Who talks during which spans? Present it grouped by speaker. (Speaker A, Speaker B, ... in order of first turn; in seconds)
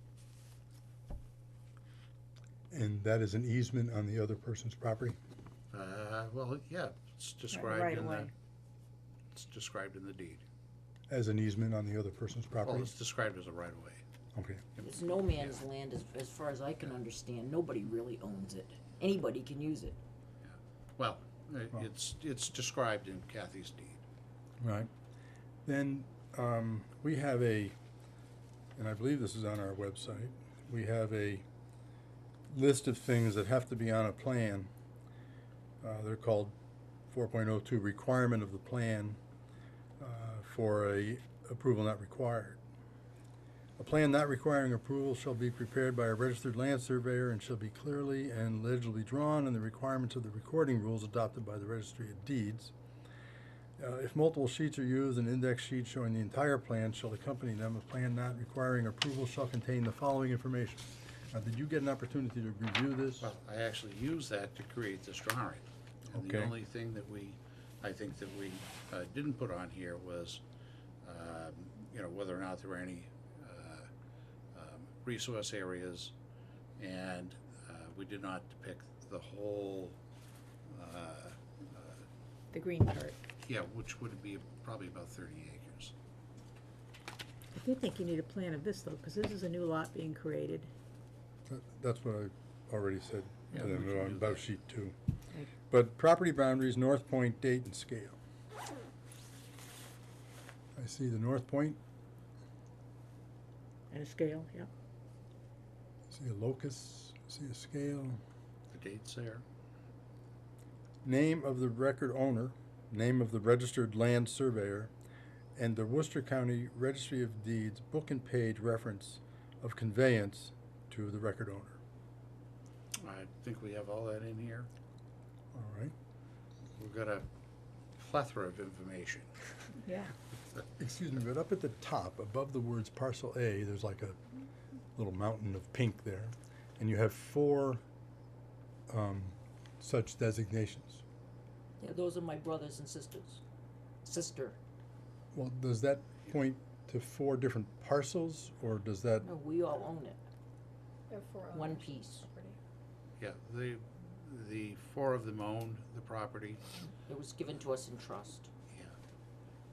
Speaker A: 2.7-5.2, 11.1-12.9, 14.3-14.6, 24.6-24.9, 25.7-27.8, 28.8-31.4, 32.5-34.7, 35.8-36.5, 37.1-39.2, 40.0-42.6, 43.8-52.7, 53.8-63.3, 66.1-66.5, 91.5-95.0, 95.7-98.2, 100.8-101.8, 106.1-108.2, 111.0-114.9, 115.6-121.8, 125.5-125.9, 130.8-134.2, 135.0-137.8, 138.9-141.0, 145.3-149.3
Speaker B: 5.7-8.3, 9.3-10.4, 12.7-14.0, 14.8-15.6, 20.4-24.0, 63.2-70.4, 71.0-73.9, 74.5-76.1, 76.8-80.0, 80.7-82.0, 83.4-85.9, 93.5-94.5, 108.7-109.5, 123.0-124.7, 126.8-127.3, 128.0-129.3, 153.2-156.6
Speaker C: 7.5-8.3, 82.5-83.2, 87.5-90.7, 103.9-104.7, 129.8-130.1, 151.1-152.6
Speaker D: 14.8-20.0, 141.8-143.4, 144.1-144.6, 149.2-150.2, 151.5-152.2, 157.1-158.5